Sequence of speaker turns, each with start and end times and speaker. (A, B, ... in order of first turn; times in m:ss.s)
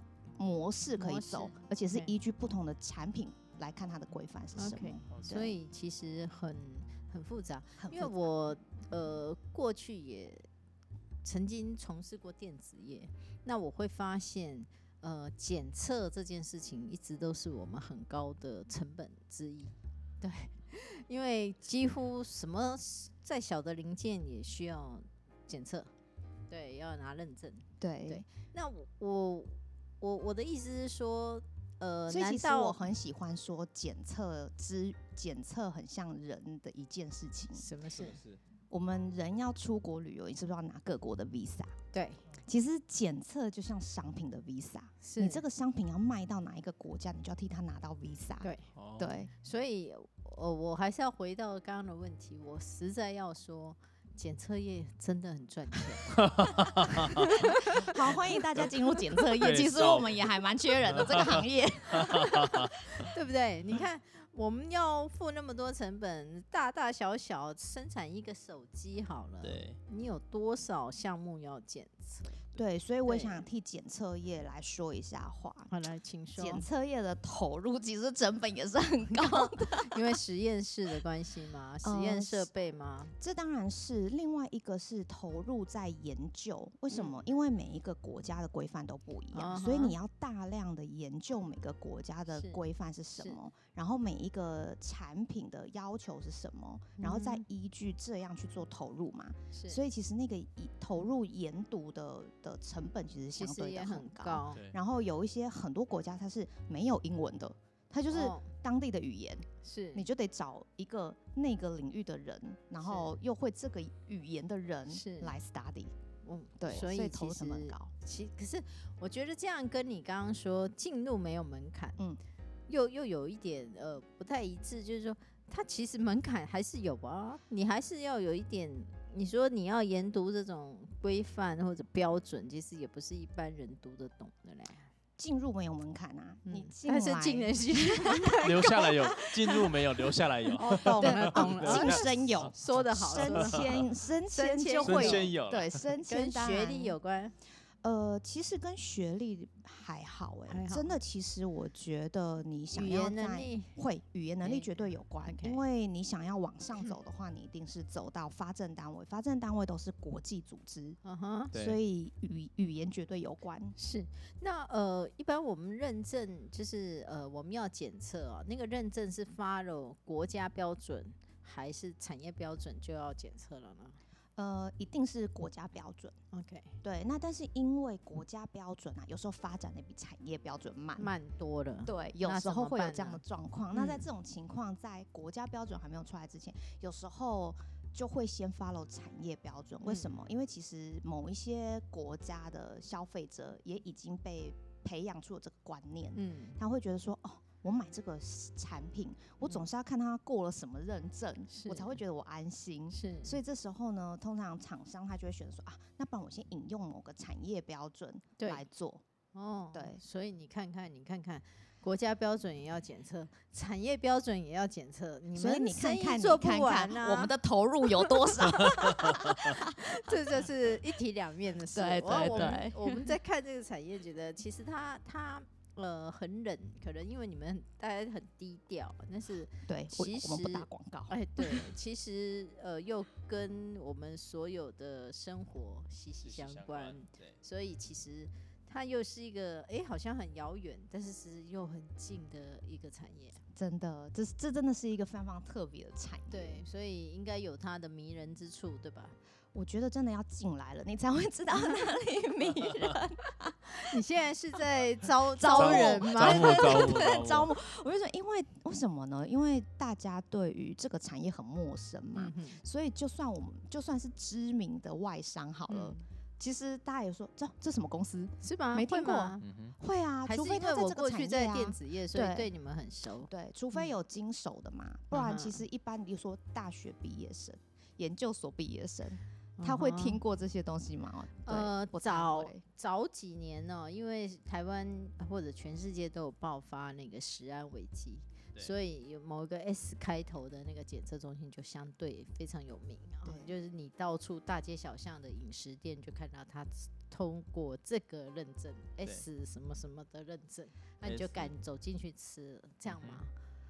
0:00.4-0:05.6 A
0:01.0-0:02.1 B
0:04.6-0:10.4 B
0:07.8-0:08.3 A
0:11.2-0:25.9 B
0:26.5-0:32.8 B
0:27.8-0:28.2 A
0:32.1-0:37.7 A
0:37.5-0:38.2 B
0:37.9-0:38.4 C
0:38.7-0:41.7 A
0:41.9-0:42.2 B
0:42.4-0:49.3 A
0:45.0-0:45.4 B
0:48.4-0:48.7 B
0:48.8-0:49.1 C
0:49.4-0:56.2 B
0:56.1-0:57.5 C
0:56.9-0:57.9 B
0:57.4-1:02.7 A
0:59.4-1:00.3 C
1:00.8-1:01.4 C
1:02.0-1:02.7 C
1:03.0-1:12.4 B
1:09.4-1:09.8 C
1:12.5-1:15.7 A
1:13.0-1:13.5 B
1:15.7-1:16.6 B
1:16.3-1:20.2 A
1:19.1-1:23.1 B
1:21.8-1:22.5 A
1:23.2-1:55.9 A
1:26.9-1:27.2 B
1:29.3-1:30.0 B
1:32.3-1:32.6 B
1:33.2-1:33.4 B
1:37.0-1:37.4 B
1:39.5-1:39.8 B
1:43.3-1:44.6 B
1:48.1-1:48.5 B
1:49.6-1:50.1 B
1:52.8-1:53.1 B
1:54.9-1:55.3 B
1:56.2-2:02.0 B
1:56.6-1:57.9 A
2:02.7-2:14.9 B
2:15.2-2:18.9 A
2:16.4-2:19.6 B
2:18.4-2:23.4 C
2:20.6-2:27.0 A
2:20.8-2:25.3 B
2:24.8-2:25.9 C
2:26.1-2:27.4 B
2:27.8-2:41.0 A
2:30.5-2:30.9 B
2:32.7-2:33.8 B
2:34.4-2:35.6 B
2:41.0-2:41.5 B
2:41.5-2:41.8 C
2:41.5-2:43.8 A
2:43.8-2:54.0 B
2:54.4-2:56.1 A
2:56.3-2:56.8 B
2:56.8-3:01.1 A
3:01.0-3:04.0 B
3:01.8-3:29.0 A
3:09.8-3:10.1 B
3:16.1-3:16.6 B
3:21.5-3:22.0 B
3:22.9-3:23.4 B
3:28.4-3:28.6 B
3:29.3-3:37.3 B
3:29.7-3:30.0 A
3:35.3-3:39.8 A
3:38.6-4:03.4 B
3:41.7-3:43.1 A
3:42.2-3:42.6 C
3:49.6-3:51.7 A
3:56.2-3:57.4 C
4:03.5-4:06.6 A
4:06.3-4:09.2 B
4:09.5-4:14.0 A
4:13.8-4:17.0 B
4:15.3-4:32.5 A
4:15.5-4:17.5 C
4:22.1-4:22.6 B
4:25.7-4:26.0 B
4:28.4-4:29.4 B
4:29.4-4:29.8 C
4:30.2-4:33.9 B
4:33.3-4:42.6 A
4:35.1-4:35.6 B
4:39.6-4:40.2 B
4:41.4-5:03.3 B
4:53.2-4:53.5 A
5:01.0-5:01.5 C
5:02.8-5:03.2 C